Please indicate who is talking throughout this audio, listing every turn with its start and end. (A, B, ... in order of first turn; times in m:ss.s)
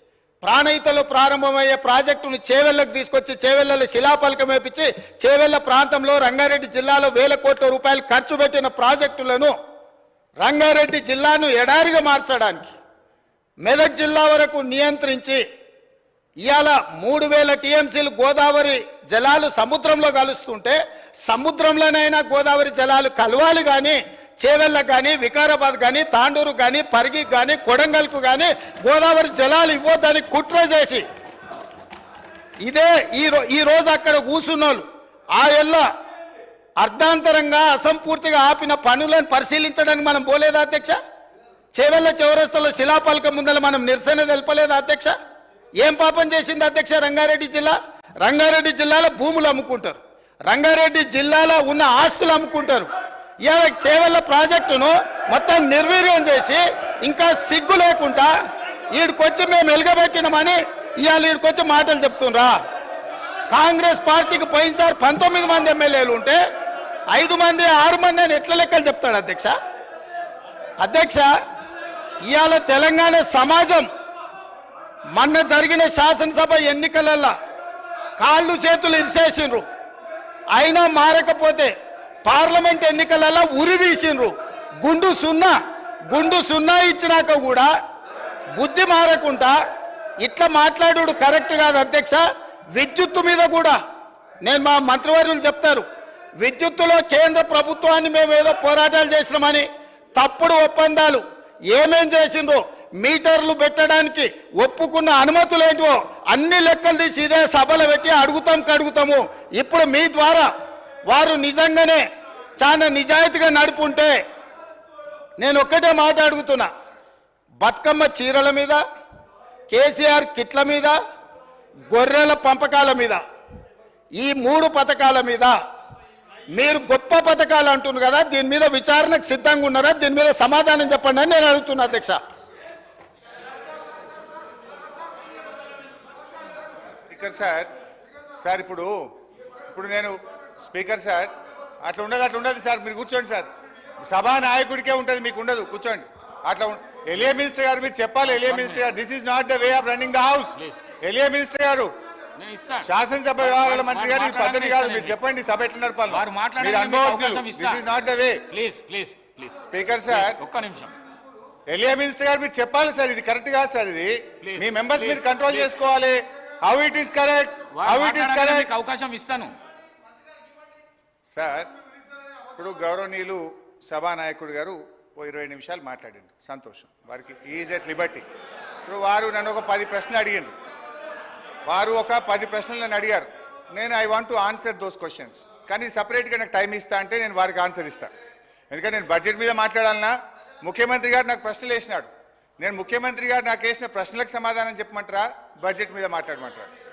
0:00.4-0:09.5 A
0:10.4-0:12.8 A
0:13.6-0:15.4 A
0:16.4-0:31.0 A
0:32.6-0:35.8 A
0:36.8-0:41.0 A
0:41.8-0:45.2 A
0:45.8-0:52.9 A
0:53.5-0:58.3 A
0:58.9-1:02.6 A
1:03.5-1:06.4 A
1:07.1-1:09.5 A
1:10.8-1:11.3 A
1:12.3-1:13.9 A
1:15.2-1:17.3 A
1:18.2-1:19.6 A
1:20.5-1:21.7 A
1:22.3-1:25.6 A
1:26.1-1:27.7 A
1:28.6-1:29.6 A
1:30.2-1:32.2 A
1:32.8-1:33.8 A
1:34.4-1:35.8 A
1:36.4-1:50.5 A
1:51.1-1:52.0 A
1:52.6-1:54.1 A
1:55.4-1:56.7 A
1:57.6-1:58.8 A
1:59.7-2:01.0 A
2:01.9-2:03.2 A
2:04.2-2:05.5 A
2:06.6-2:12.2 A
2:17.1-2:17.7 B
2:18.4-2:18.9 B
2:19.7-2:21.3 B
2:21.8-2:23.5 B
2:24.0-2:31.9 B
2:28.3-2:28.8 C
2:32.4-2:32.9 C
2:32.8-2:38.5 B
2:33.4-2:35.2 C
2:36.1-2:37.8 C
2:38.5-2:40.9 C
2:39.7-2:40.4 B
2:41.7-2:48.7 B
2:44.4-2:45.7 C
2:47.8-2:49.6 C
2:51.3-2:51.7 B
2:52.6-2:58.2 B
2:58.9-3:00.5 B
3:01.7-3:08.1 B
3:08.7-3:16.7 B